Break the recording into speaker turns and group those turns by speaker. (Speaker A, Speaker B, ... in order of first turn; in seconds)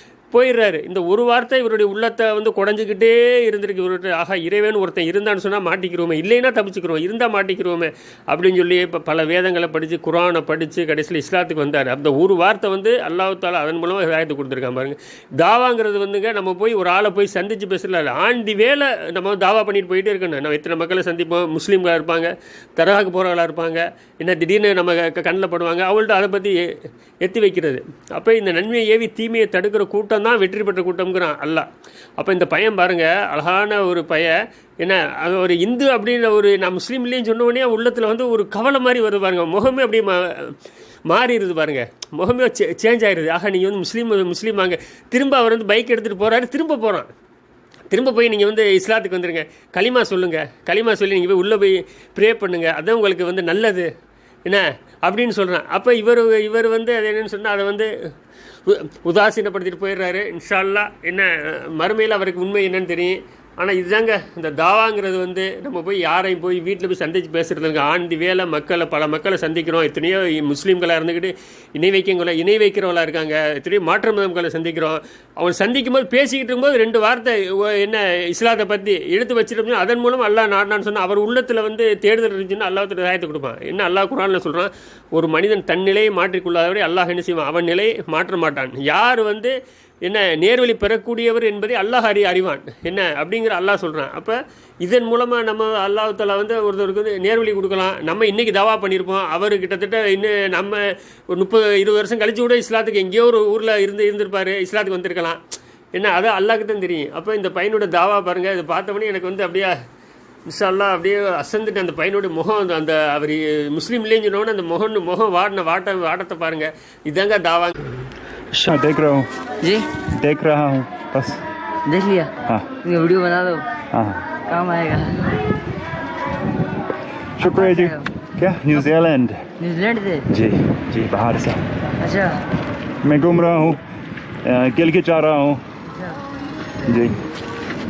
Speaker A: 0.3-26.7, 27.2-40.5, 41.1-47.1, 47.9-53.9, 54.5-57.9, 58.6-89.5, 90.0-105.4, 105.9-109.8, 110.5-118.7
Speaker B: 118.6-119.3, 120.1-121.4, 123.9-124.2, 127.4-129.4, 130.3-131.6, 133.0-133.8, 134.4-135.6, 136.8-137.2
Speaker C: 119.6-119.9, 121.8-122.3, 122.8-123.6, 124.5-125.4, 127.4-128.1, 129.6-130.3, 132.0-132.4